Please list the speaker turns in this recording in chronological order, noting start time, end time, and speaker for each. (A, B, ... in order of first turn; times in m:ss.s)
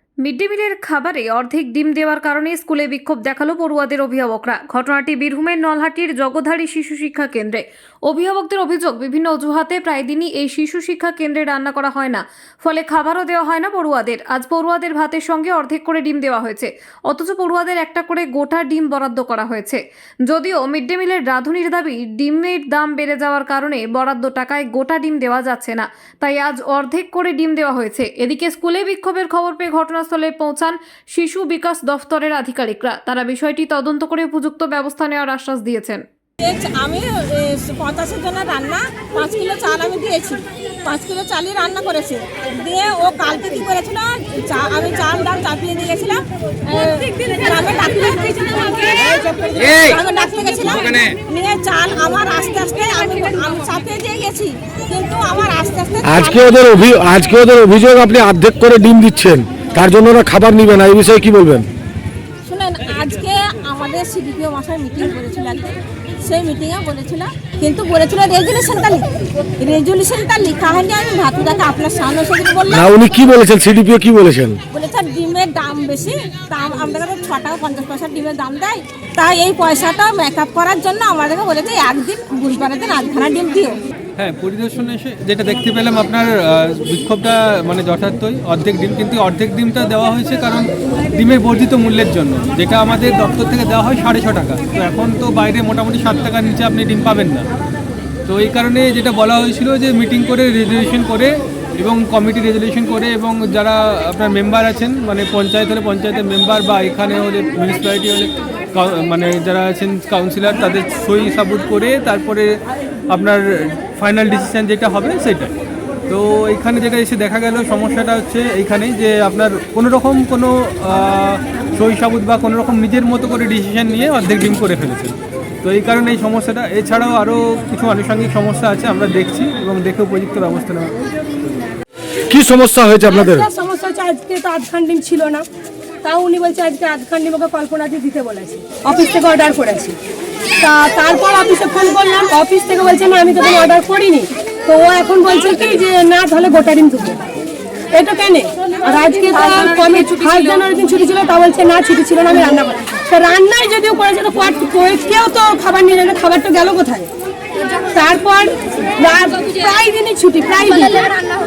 0:00.2-0:36.0 A
0:36.4-0:56.7 B
0:56.0-1:01.7 C
1:02.5-1:09.1 B
1:09.6-1:12.9 B
1:12.7-1:14.6 C
1:14.7-1:23.8 B
1:24.2-1:37.5 D
1:38.3-1:52.6 D
1:53.1-1:55.5 D
1:56.1-2:11.0 D
2:12.3-2:13.5 C
2:13.0-2:15.4 E
2:16.0-2:20.0 E
2:20.6-2:27.2 E
2:27.9-2:37.1 E
2:37.9-2:41.1 E